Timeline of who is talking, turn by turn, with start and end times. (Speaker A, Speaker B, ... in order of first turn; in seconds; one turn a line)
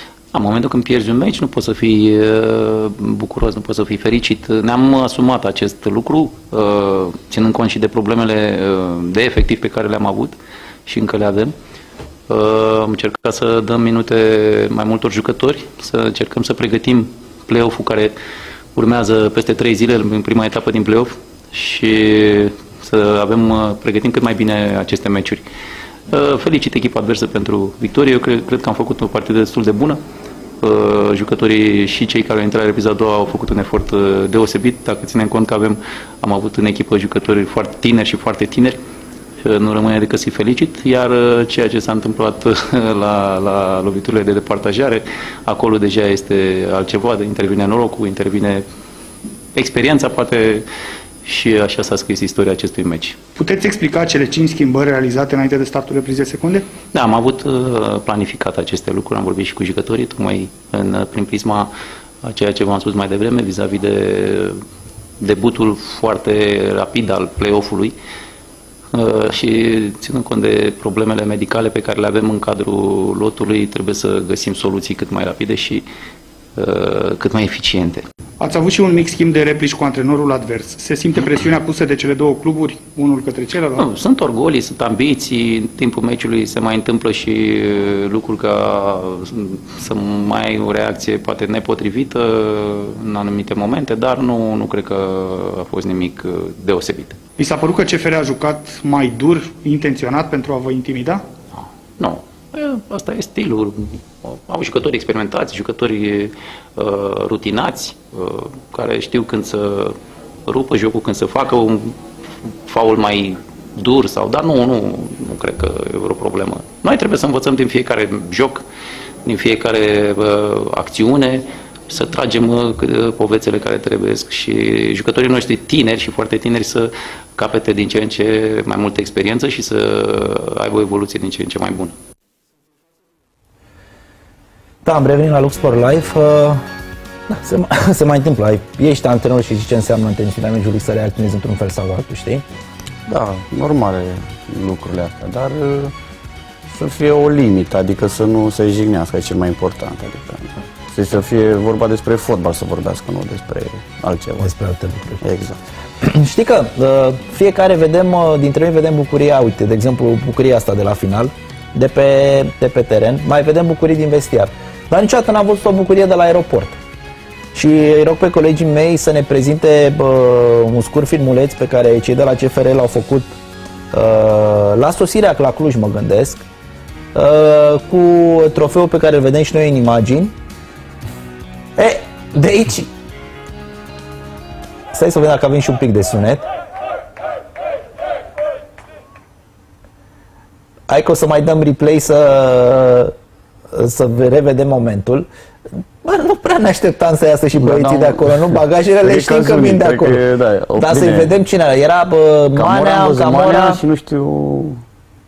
Speaker A: 0.3-10.3
Speaker A: 10.9-11.5
Speaker A: 12.3-18.1
Speaker A: 18.8-25.4
Speaker A: 26.1-30.0
Speaker A: 30.6-38.8
Speaker A: 39.4-48.6
Speaker A: 49.5-50.7
Speaker A: 51.2-53.2
Speaker B: 53.4-56.7
Speaker A: 56.9-61.7
Speaker A: 62.2-64.6
Speaker A: 65.2-68.0
Speaker A: 68.9-75.9
Speaker A: 76.6-78.0
Speaker B: 78.4-83.8
Speaker A: 83.8-97.2
Speaker B: 97.4-101.2
Speaker A: 101.6-118.6
Speaker A: 119.2-131.9
Speaker C: 134.8-136.6
Speaker C: 137.3-142.4
Speaker D: 143.1-145.9
Speaker D: 146.7-154.5
Speaker C: 154.4-155.2
Speaker D: 155.2-155.6
Speaker C: 156.0-166.8
Speaker C: 167.6-173.3
Speaker C: 173.9-176.5
Speaker C: 177.1-180.3
Speaker C: 181.8-182.9
Speaker C: 184.9-186.5
Speaker C: 190.9-193.1
Speaker C: 193.7-195.2
Speaker C: 196.0-200.2
Speaker D: 197.6-201.3
Speaker C: 200.8-203.8
Speaker D: 202.6-204.8